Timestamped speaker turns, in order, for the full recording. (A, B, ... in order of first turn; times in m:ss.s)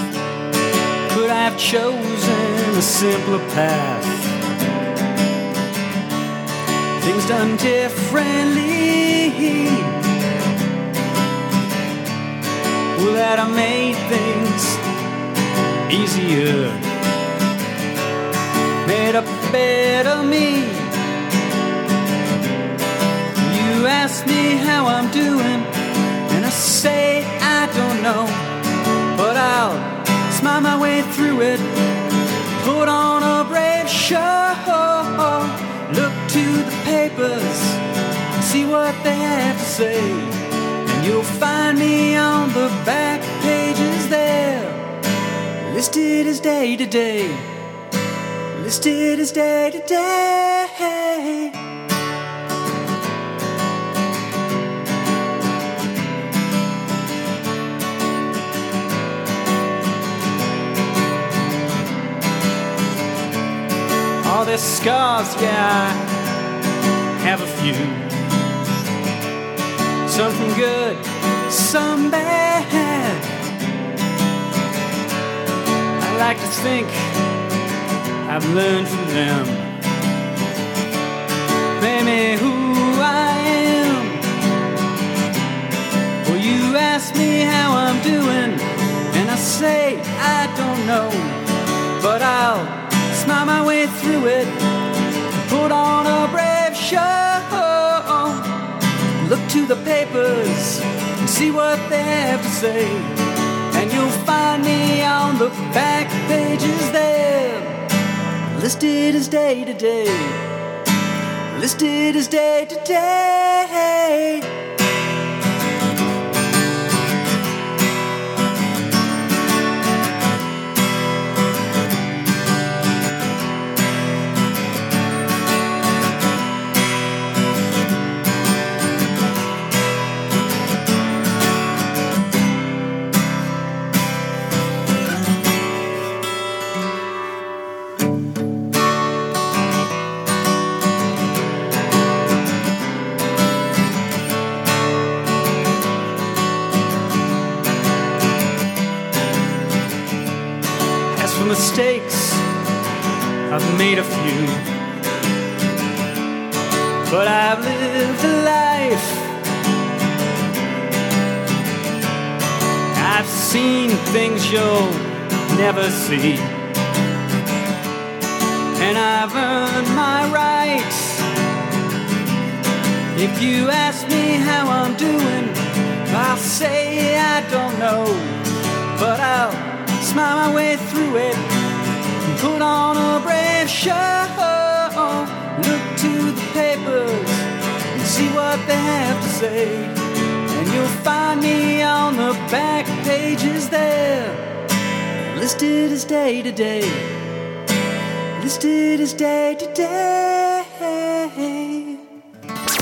0:01.1-0:04.3 A
0:07.0-0:10.0 A
0:12.9-0:14.8 A
0:15.9-0:16.9 A
0:18.8-0:20.9 A
0:23.4-0:25.7 A
0:26.3-0:28.5 A
0:29.1-0:32.0 A
0:32.6-0:37.8 A
0:38.4-0:44.8 A
0:45.6-0:47.5 A
0:48.5-0:51.6 A
1:04.2-1:06.1 A
1:07.2-1:08.1 A
1:10.0-1:13.3 A
1:16.0-1:17.2 A
1:18.2-1:19.7 A
1:21.8-1:24.2 A
1:26.2-1:31.4 A
1:32.0-1:34.6 A
1:35.4-1:38.7 A
1:39.2-1:43.2 A
1:43.7-1:47.8 A
1:48.5-1:50.4 A
1:51.5-1:54.5 A
2:31.1-2:32.5 A
2:33.5-2:34.6 A
2:37.0-2:39.3 A
2:42.9-2:46.6 A
2:48.8-2:51.2 A
2:53.1-2:58.4 A
2:58.9-3:01.4 A
3:02.2-3:10.0 A
3:10.5-3:14.4 A
3:15.2-3:17.2 A
3:18.4-3:22.0 A